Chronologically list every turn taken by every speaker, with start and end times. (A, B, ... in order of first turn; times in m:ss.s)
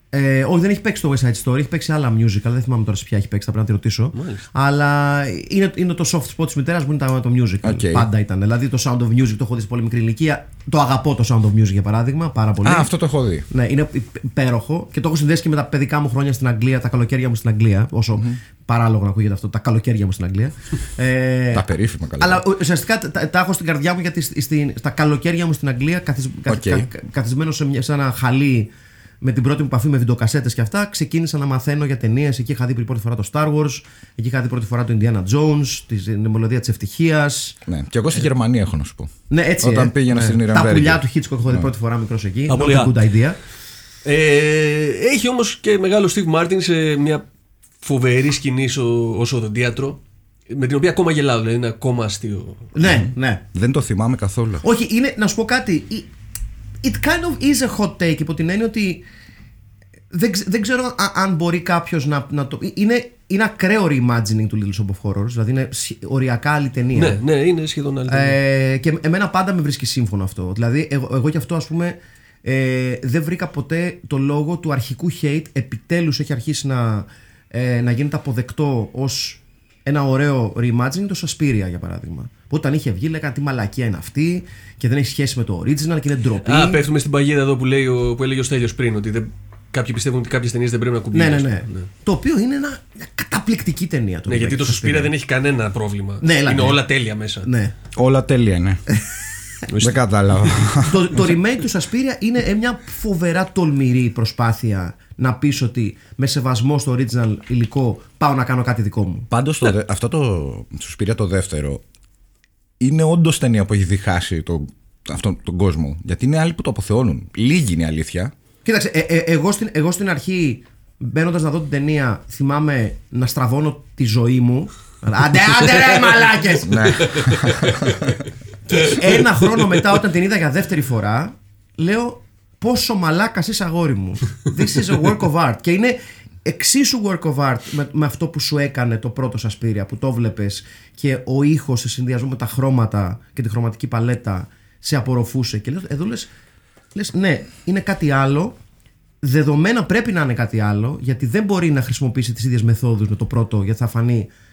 0:00.1-0:12.9 A
0:04.1-0:04.4 B
0:07.6-0:08.1 C
0:12.6-0:13.4 C
0:13.5-0:21.6 A
0:21.5-0:22.4 C
0:22.2-0:28.7 A
0:26.5-0:26.9 C
0:29.2-0:37.6 A
0:37.6-0:41.7 C
0:39.3-0:43.4 A
0:42.5-0:43.0 B
0:44.0-0:47.2 B
0:47.8-0:52.7 B
0:52.7-0:53.4 A
0:52.8-0:54.6 C
0:54.6-0:56.1 A
0:56.8-0:59.0 A
1:00.1-1:07.2 A
1:06.9-1:08.4 B
1:08.1-1:26.8 A
1:26.4-1:31.9 B
1:31.1-1:35.1 A
1:34.3-1:37.5 B
1:36.2-1:36.8 A
1:37.4-1:37.7 A
1:37.9-1:38.8 C
1:39.7-1:40.0 B
1:39.8-1:41.2 C
1:40.8-1:49.3 A
1:49.3-1:51.8 C
1:52.8-1:58.3 C
1:58.6-2:07.2 A
2:06.6-2:08.2 C
2:08.7-2:26.3 A
2:26.9-2:28.5 A
2:29.2-2:34.3 A